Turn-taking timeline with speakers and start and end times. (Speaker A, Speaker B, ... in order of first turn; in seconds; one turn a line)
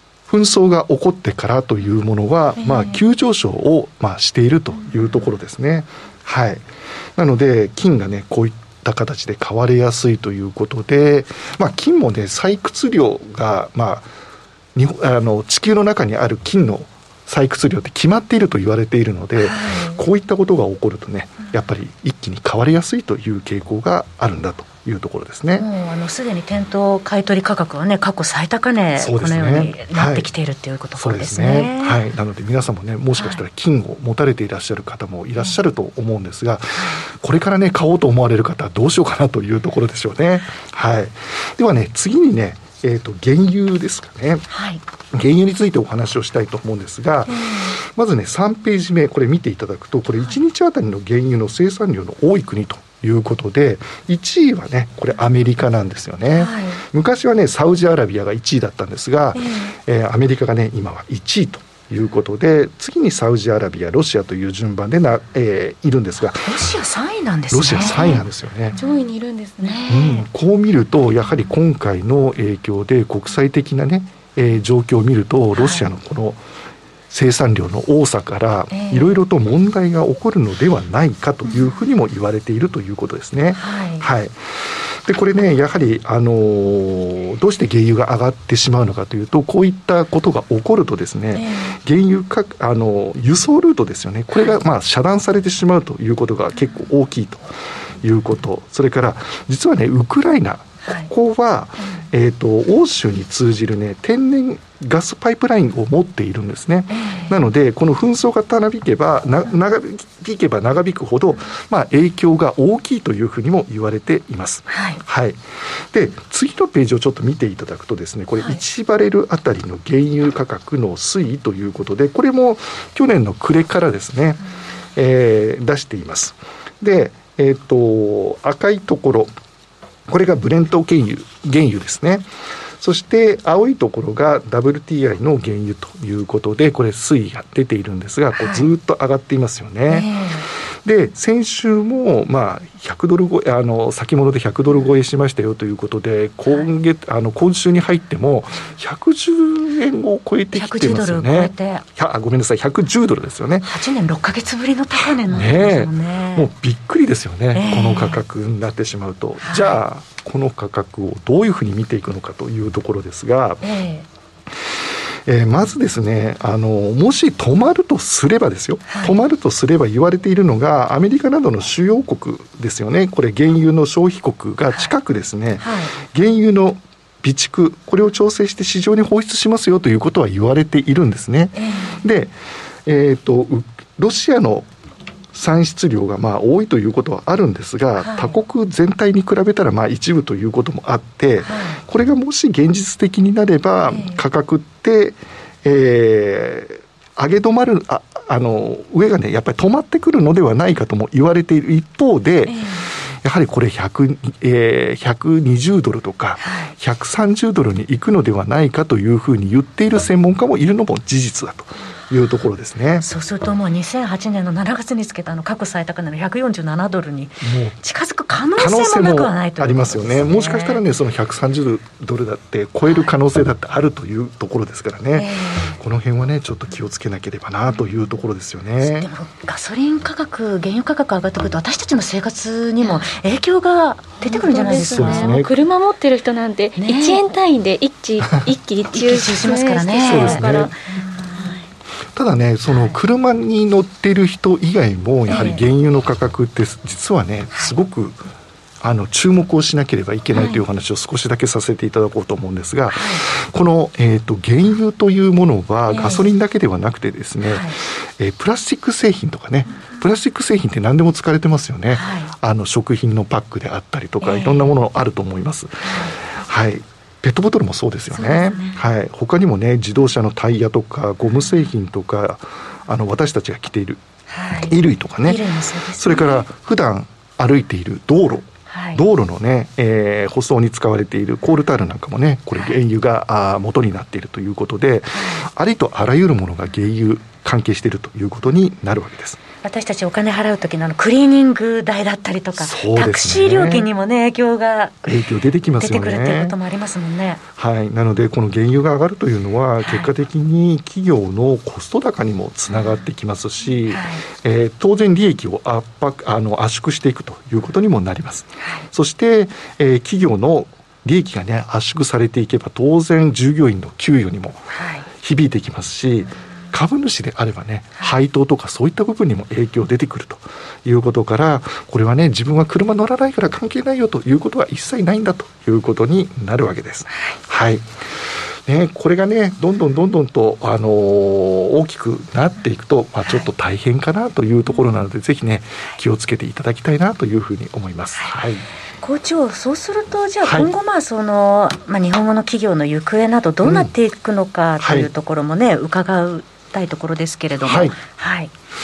Speaker A: 0.3-6.7
Speaker A: 7.2-14.1
Speaker A: 14.8-25.7
Speaker B: 19.4-20.0
Speaker B: 25.6-32.0
Speaker A: 29.0-30.3
Speaker A: 31.0-44.5
Speaker B: 33.2-33.4
Speaker B: 44.5-44.8
Speaker A: 45.1-66.7
Speaker B: 56.4-56.8
Speaker B: 66.5-68.2
Speaker A: 67.5-68.8
Speaker C: 68.8-69.9
Speaker B: 69.6-70.2
Speaker A: 69.9-76.4
Speaker B: 75.5-75.9
Speaker A: 77.1-124.4
Speaker B: 78.7-79.1
Speaker B: 83.6-84.1
Speaker B: 91.3-91.8
Speaker B: 100.8-101.1
Speaker B: 106.9-107.4
Speaker B: 114.7-115.0
Speaker A: 125.0-129.3
Speaker A: 130.1-132.3
Speaker A: 132.8-140.1
Speaker B: 138.4-138.7
Speaker B: 139.9-140.5
Speaker A: 140.8-153.7
Speaker B: 150.5-151.8
Speaker B: 153.6-156.5
Speaker A: 155.0-163.6
Speaker B: 157.5-158.2
Speaker B: 159.4-159.8
Speaker B: 163.6-164.1
Speaker A: 165.3-184.7
Speaker B: 168.9-169.2
Speaker B: 175.6-175.9
Speaker B: 181.6-182.1
Speaker A: 185.3-213.1
Speaker B: 188.0-188.4
Speaker B: 191.4-191.8
Speaker B: 193.9-194.2
Speaker B: 202.5-202.8
Speaker B: 206.4-206.7
Speaker B: 213.0-220.8
Speaker A: 217.4-217.8
Speaker A: 218.6-229.1
Speaker B: 225.2-225.8
Speaker B: 228.8-235.4
Speaker C: 234.2-241.6
Speaker A: 234.8-235.5
Speaker B: 236.8-237.2
Speaker B: 238.9-240.6
Speaker A: 240.1-240.7
Speaker B: 241.2-241.5
Speaker A: 242.2-248.2
Speaker B: 242.7-242.9
Speaker B: 245.3-245.6
Speaker A: 248.8-274.0
Speaker B: 250.3-250.6
Speaker B: 252.9-253.2
Speaker B: 255.9-256.3
Speaker B: 257.5-257.8
Speaker B: 261.9-262.3
Speaker B: 264.2-264.7
Speaker B: 265.8-266.1
Speaker B: 268.1-268.8
Speaker B: 274.3-276.5
Speaker A: 274.5-275.4
Speaker A: 276.0-289.4
Speaker B: 278.7-279.0
Speaker B: 285.1-285.5
Speaker B: 289.6-295.1
Speaker A: 292.6-293.9
Speaker A: 295.1-296.6
Speaker B: 295.8-297.4
Speaker A: 297.6-314.7
Speaker B: 299.8-300.1
Speaker B: 303.9-304.2
Speaker B: 314.7-315.1
Speaker A: 315.2-327.9
Speaker A: 328.7-338.6
Speaker B: 339.0-348.5
Speaker A: 340.4-340.7
Speaker A: 343.6-343.9
Speaker A: 344.8-345.1
Speaker A: 347.6-348.0